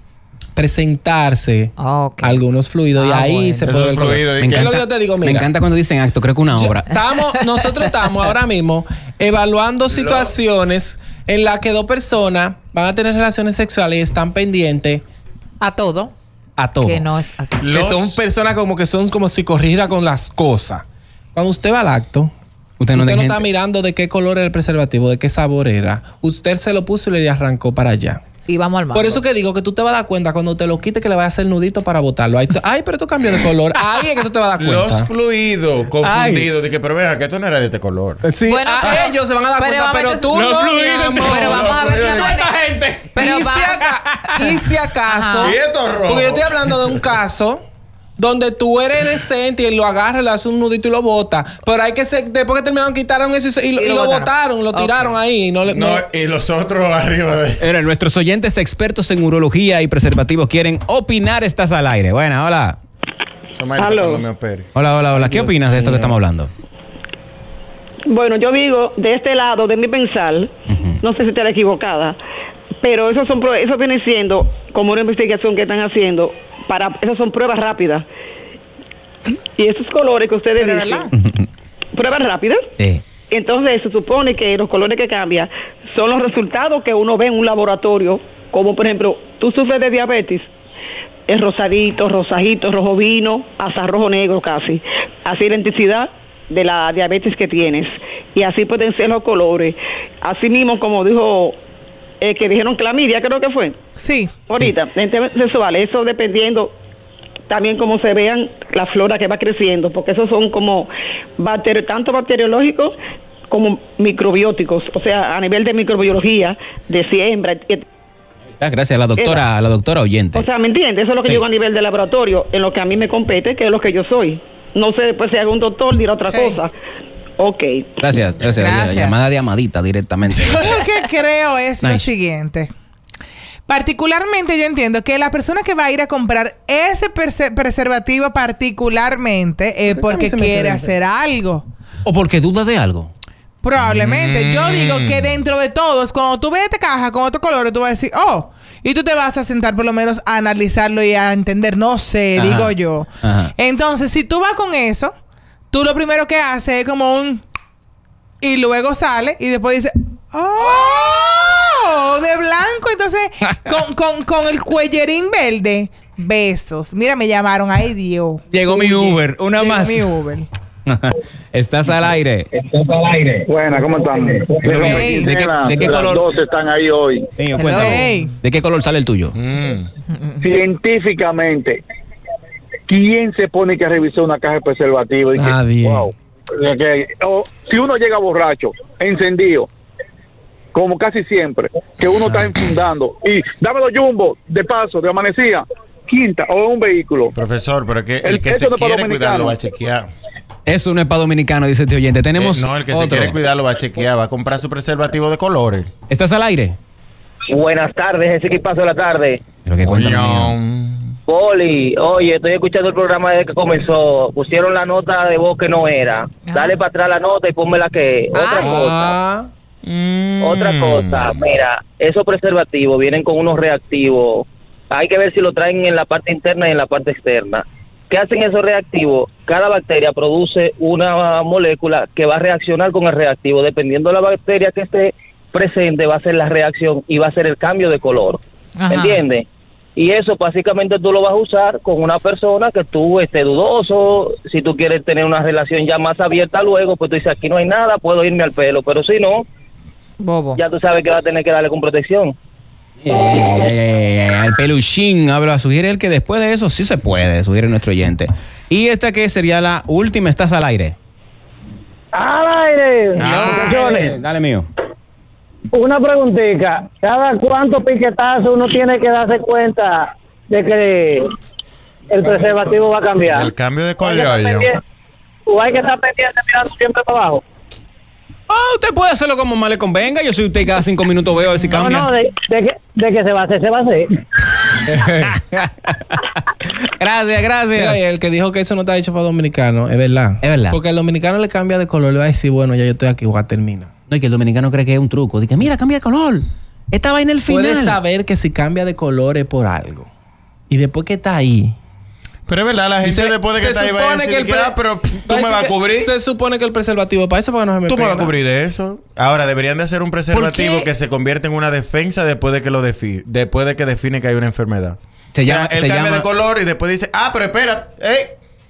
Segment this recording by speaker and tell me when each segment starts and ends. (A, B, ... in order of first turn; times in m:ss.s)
0:00.6-0:05.5 A
0:01.8-0:03.7 B
0:03.6-0:04.8 C
0:04.4-0:06.9 D
0:06.5-0:15.0 A
0:07.1-0:07.9 B
0:09.9-0:10.4 C
0:15.6-0:16.1 B
0:16.6-0:22.3 A
0:16.8-0:17.6 B
0:17.6-0:18.2 C
0:22.8-0:23.5 D
0:22.9-0:28.2 A
0:28.5-0:29.2 B
0:28.9-0:35.1 A
0:33.8-0:34.1 D
0:34.6-0:38.2 C
0:36.0-0:36.5 D
0:38.2-0:41.7 A
0:38.4-0:45.6 B
0:40.4-0:41.3 D
0:41.3-0:42.4 C
0:42.3-0:43.2 D
0:43.2-0:47.6 A
0:44.0-0:44.5 D
0:45.4-0:47.0 C
0:48.2-0:56.0 A
0:53.8-0:55.2 B
0:55.7-0:57.6 C
0:57.6-1:02.8 D
1:03.5-1:04.7 C
1:03.8-1:04.2 E
1:04.7-1:06.5 D
1:05.1-1:06.2 A
1:08.1-1:12.2 E
1:12.8-1:18.0 E
1:19.6-1:21.1 E
1:20.6-1:21.1 F
1:21.9-1:22.7 E
1:23.3-1:30.5 E
1:31.3-1:41.6 E
1:42.2-1:43.8 E
1:44.0-1:44.3 F
1:44.5-1:46.7 E
1:47.5-1:52.9 E
1:53.5-1:57.8 E
1:58.6-2:00.4 D
1:59.2-1:59.4 E
2:00.3-2:06.7 E
2:06.3-2:06.6 F
2:07.4-2:07.9 E
2:08.0-2:10.8 D
2:08.5-2:09.2 B
2:10.3-2:12.7 F
2:11.8-2:12.1 D
2:13.7-2:21.6 F
2:19.9-2:21.0 A
2:22.0-2:23.1 D
2:23.6-2:35.1 F
2:23.8-2:25.5 C
2:32.4-2:33.5 D
2:35.7-2:37.4 F
2:38.4-2:50.5 F
2:48.5-2:50.2 D
2:50.9-2:52.5 D
2:52.7-2:53.1 G
2:53.4-2:57.3 H
2:54.7-2:56.3 D
2:54.7-2:55.3 F
2:57.4-2:59.4 D
2:57.6-2:58.0 B
2:57.8-2:58.3 F
2:59.4-2:59.9 C
3:00.4-3:01.8 H
3:02.9-3:09.7 H
3:05.4-3:06.1 A
3:10.7-3:17.4 H
3:17.3-3:20.1 C
3:18.2-3:19.6 H
3:20.7-3:23.4 D
3:22.4-3:25.9 C
3:26.1-3:26.8 D
3:27.5-3:29.4 G
3:29.6-3:30.6 D
3:29.9-3:31.2 C
3:31.3-3:39.2 G
3:36.4-3:36.8 B
3:38.6-3:39.5 A
3:39.8-3:41.2 C
3:40.4-3:58.4 G
3:58.8-3:59.2 B
3:59.0-3:59.5 G
4:00.0-4:09.5 G
4:10.2-4:10.6 B
4:10.6-4:12.4 G
4:13.0-4:21.0 D
4:22.1-4:24.2 I
4:23.2-4:23.6 C
4:23.2-4:24.7 D
4:25.7-4:31.2 I
4:32.1-4:33.5 I
4:33.3-4:34.7 C
4:34.0-4:34.7 I
4:35.5-4:37.4 I
4:38.5-4:42.1 D
4:41.7-4:44.1 I
4:44.9-4:46.2 D
4:46.8-4:48.0 D
4:47.8-4:53.9 A
4:50.4-4:50.8 D
4:54.1-4:58.0 D
4:57.5-5:00.1 A
5:00.7-5:01.8 A
5:02.5-5:06.1 C
5:03.0-5:08.3 A
5:07.9-5:18.4 C
5:10.3-5:10.9 D
5:15.3-5:16.3 D